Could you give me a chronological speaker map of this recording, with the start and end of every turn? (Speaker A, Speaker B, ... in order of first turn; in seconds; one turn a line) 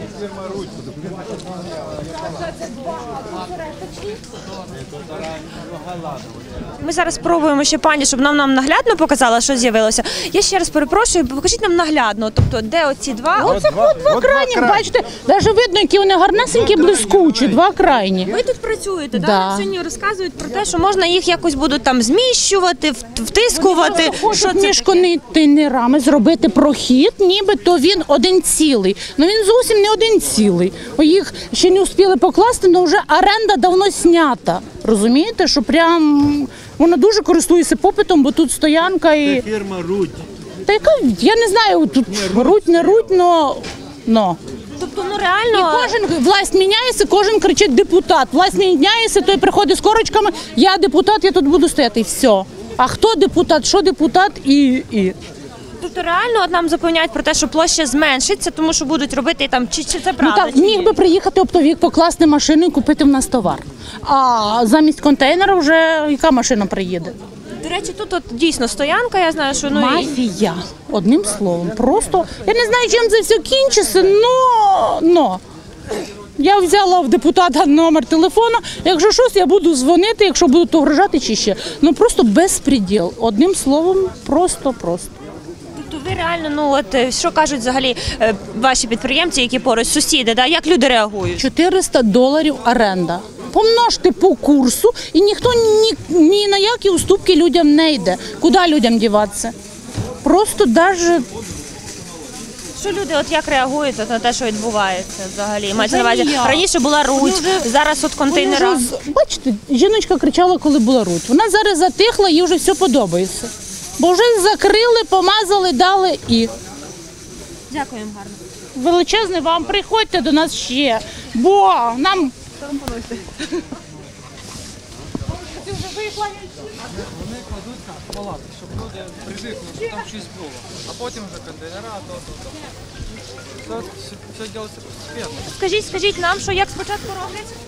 Speaker A: 6.8-14.1
Speaker B: 13.4-18.3
Speaker A: 18.3-25.0
Speaker B: 19.1-19.6
Speaker B: 23.6-39.5
Speaker B: 40.7-44.4
Speaker A: 44.8-46.0
Speaker B: 45.5-55.2
Speaker A: 55.8-61.0
Speaker B: 60.2-67.2
Speaker A: 67.6-70.1
Speaker B: 69.7-75.4
Speaker B: 76.4-85.1
Speaker A: 85.8-91.5
Speaker B: 91.4-99.5
Speaker B: 100.2-101.3
Speaker A: 102.8-108.8
Speaker B: 105.8-107.7
Speaker B: 108.3-116.5
Speaker A: 117.7-118.4
Speaker B: 118.8-122.3
Speaker A: 122.7-123.1
Speaker C: 127.3-132.3
Speaker C: 133.7-135.3
Speaker A: 135.4-137.5